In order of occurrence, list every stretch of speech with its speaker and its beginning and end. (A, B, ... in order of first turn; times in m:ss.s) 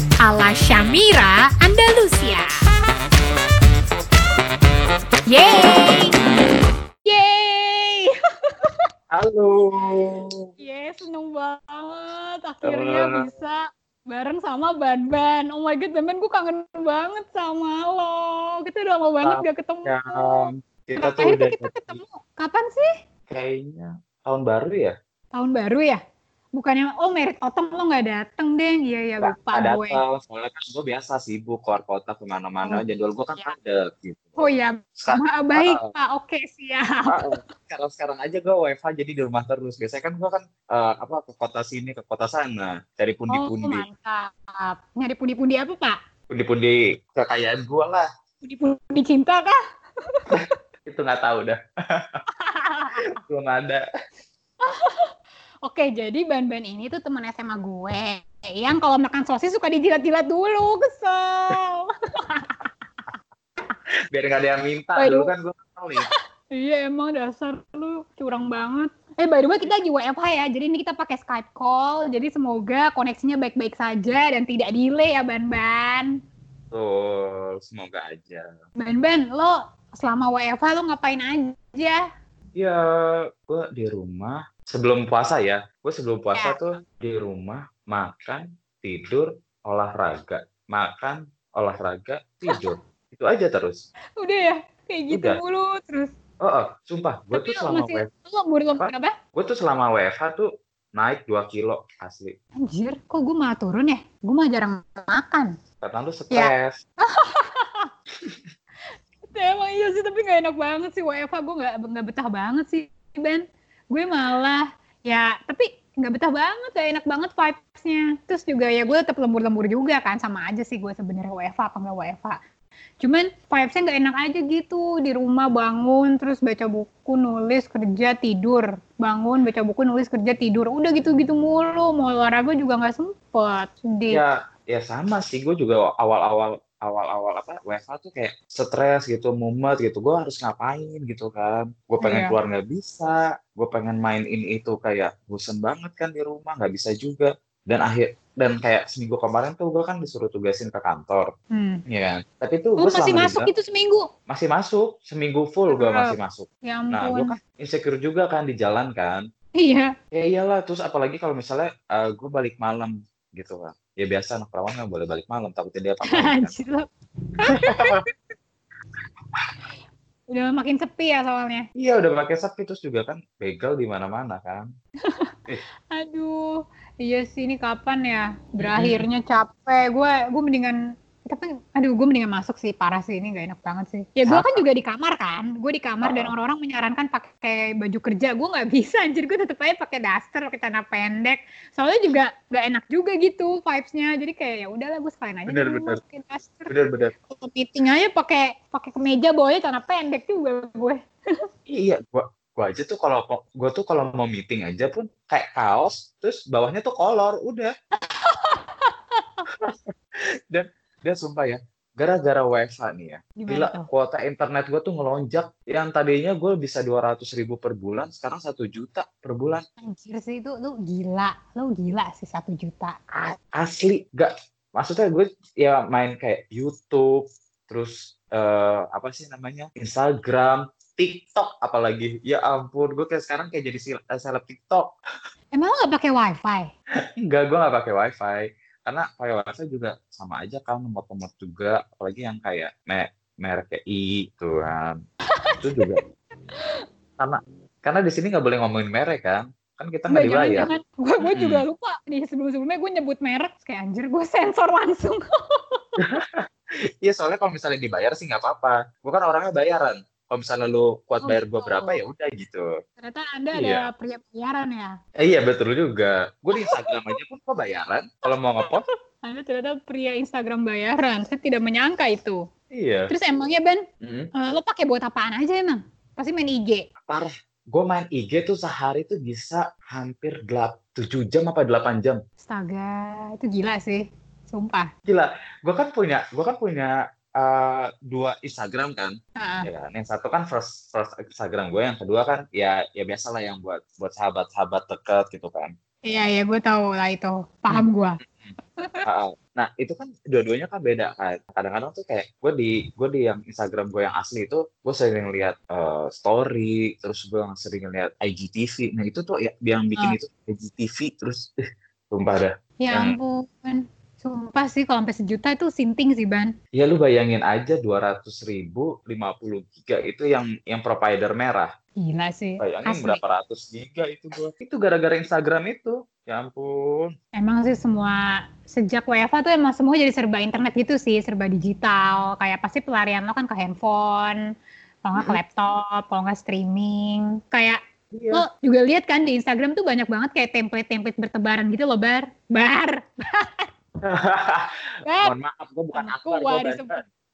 0:00.2-0:02.5 A
0:05.3-0:06.1 A
0:07.0-0:08.8 A
0:09.1-0:10.5 B
0:10.6-0:22.9 A
0:12.6-0:13.2 B
0:19.2-0:22.0 B
0:23.3-0:24.9 B
0:25.3-0:26.0 A
0:26.5-0:30.0 A
0:29.2-0:34.4 B
0:34.4-0:37.4 A
0:35.0-0:35.9 B
0:37.1-0:43.8 B
0:43.3-0:46.0 A
0:46.3-0:48.1 B
0:48.4-0:50.4 A
0:50.3-0:52.2 B
0:52.3-0:53.2 A
0:53.1-0:53.8 B
0:54.6-0:55.1 A
0:55.6-1:02.7 A
1:04.1-1:06.1 B
1:05.0-1:05.3 A
1:06.0-1:16.1 A
1:16.7-1:18.4 B
1:18.8-1:22.0 A
1:22.6-1:33.8 B
1:34.2-1:36.1 A
1:35.1-1:35.4 B
1:36.4-1:38.1 B
1:37.3-1:39.1 A
1:38.8-1:42.3 B
1:42.6-1:45.5 A
1:45.8-1:46.8 B
1:46.3-1:47.9 A
1:49.3-2:02.4 A
2:03.0-2:14.2 A
2:14.1-2:31.3 B
2:22.0-2:22.3 A
2:31.5-2:31.8 A
2:31.9-2:33.5 B
2:32.8-2:34.1 A
2:34.3-2:39.2 B
2:35.7-2:37.3 A
2:39.6-2:39.9 A
2:40.1-2:46.5 B
2:46.1-2:46.8 A
2:47.4-2:48.1 A
2:47.5-2:48.0 B
2:50.3-2:51.7 A
2:51.8-2:54.7 B
2:55.0-2:55.3 A
2:55.9-2:56.4 A
2:57.0-3:16.7 A
2:58.6-2:59.0 B
3:04.2-3:04.6 B
3:06.0-3:06.3 B
3:15.5-3:16.0 B
3:16.7-3:17.1 B
3:17.3-3:21.4 A
3:21.7-3:27.7 B
3:28.0-3:29.5 A
3:29.6-3:29.9 B
3:30.5-3:39.6 B
3:33.4-3:33.9 A
3:39.8-3:43.0 A
3:43.1-3:54.9 B
3:55.5-3:56.7 A
3:57.2-4:05.0 B
4:05.3-4:06.0 A
4:05.6-4:06.0 B
4:06.5-4:06.8 A
4:07.2-4:10.7 B
4:10.1-4:16.0 A
4:11.2-4:11.6 B
4:16.0-4:16.4 B
4:17.0-4:22.6 B
4:21.2-4:22.0 A
4:23.0-4:25.0 A
4:23.6-4:23.9 B
4:25.2-4:28.8 B
4:26.5-4:27.1 A
4:28.6-4:32.4 A
4:32.7-4:33.1 B
4:33.1-4:33.8 A
4:34.0-4:34.3 B
4:34.4-4:36.8 A
4:37.1-4:42.2 B
4:42.4-4:44.9 A
4:45.1-4:55.7 B
4:49.4-4:49.7 A
4:56.1-4:58.2 A
4:57.7-4:58.5 B
4:59.0-5:11.5 B
5:12.1-5:13.1 B
5:12.8-5:16.5 A
5:16.7-5:21.7 B
5:22.0-5:23.2 A
5:22.6-5:27.1 B
5:27.4-5:34.4 A
5:35.0-5:37.8 A
5:38.1-5:38.4 B
5:38.3-5:43.7 A
5:44.0-5:47.0 B
5:45.0-5:45.3 A
5:45.9-5:47.0 A